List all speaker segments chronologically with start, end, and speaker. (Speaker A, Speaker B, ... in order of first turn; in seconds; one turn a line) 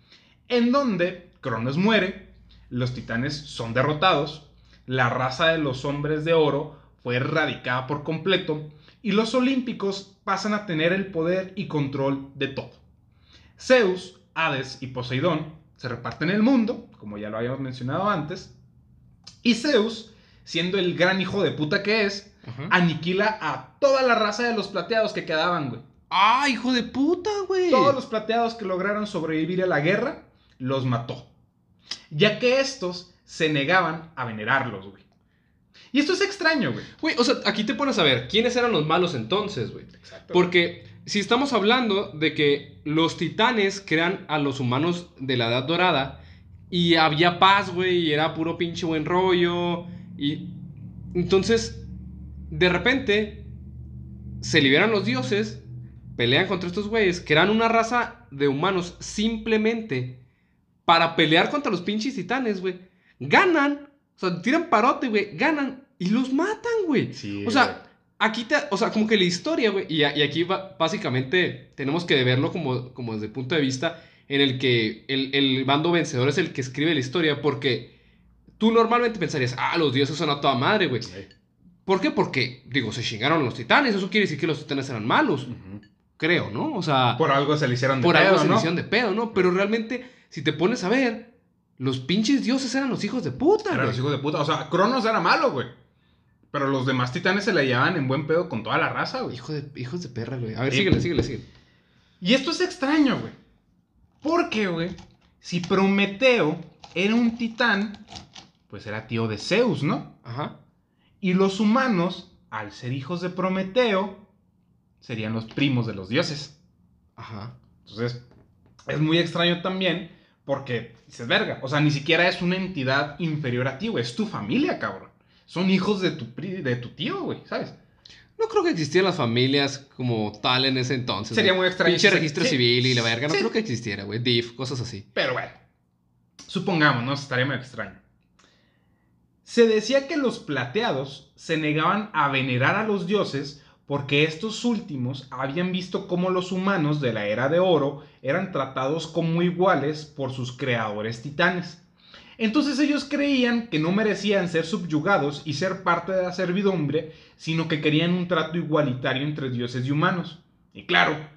Speaker A: 0.5-12.8
Speaker A: 13.6-18.5
Speaker A: 19.4-25.9
Speaker B: 22.4-22.7
Speaker B: 26.1-28.0
Speaker A: 27.7-31.3
Speaker A: 32.1-35.0
Speaker A: 35.9-36.9
Speaker B: 37.0-50.5
Speaker A: 40.0-40.5
Speaker B: 51.1-51.8
Speaker B: 52.5-53.5
Speaker B: 54.4-55.6
Speaker B: 56.1-60.2
Speaker B: 60.8-77.9
Speaker A: 67.1-67.8
Speaker B: 78.6-81.1
Speaker B: 81.8-85.5
Speaker A: 85.5-85.8
Speaker B: 86.2-87.2
Speaker A: 87.2-88.7
Speaker B: 88.0-94.0
Speaker A: 93.7-95.7
Speaker A: 96.5-99.4
Speaker B: 99.3-101.4
Speaker A: 100.7-100.9
Speaker A: 102.2-103.3
Speaker A: 104.2-108.0
Speaker A: 108.7-110.1
Speaker B: 110.2-110.5
Speaker A: 111.2-114.2
Speaker A: 115.0-116.5
Speaker B: 117.2-117.5
Speaker A: 117.8-118.2
Speaker A: 118.9-127.8
Speaker B: 128.4-135.1
Speaker A: 131.3-133.5
Speaker A: 135.1-135.6
Speaker A: 136.5-138.0
Speaker A: 139.4-151.8
Speaker A: 152.4-161.2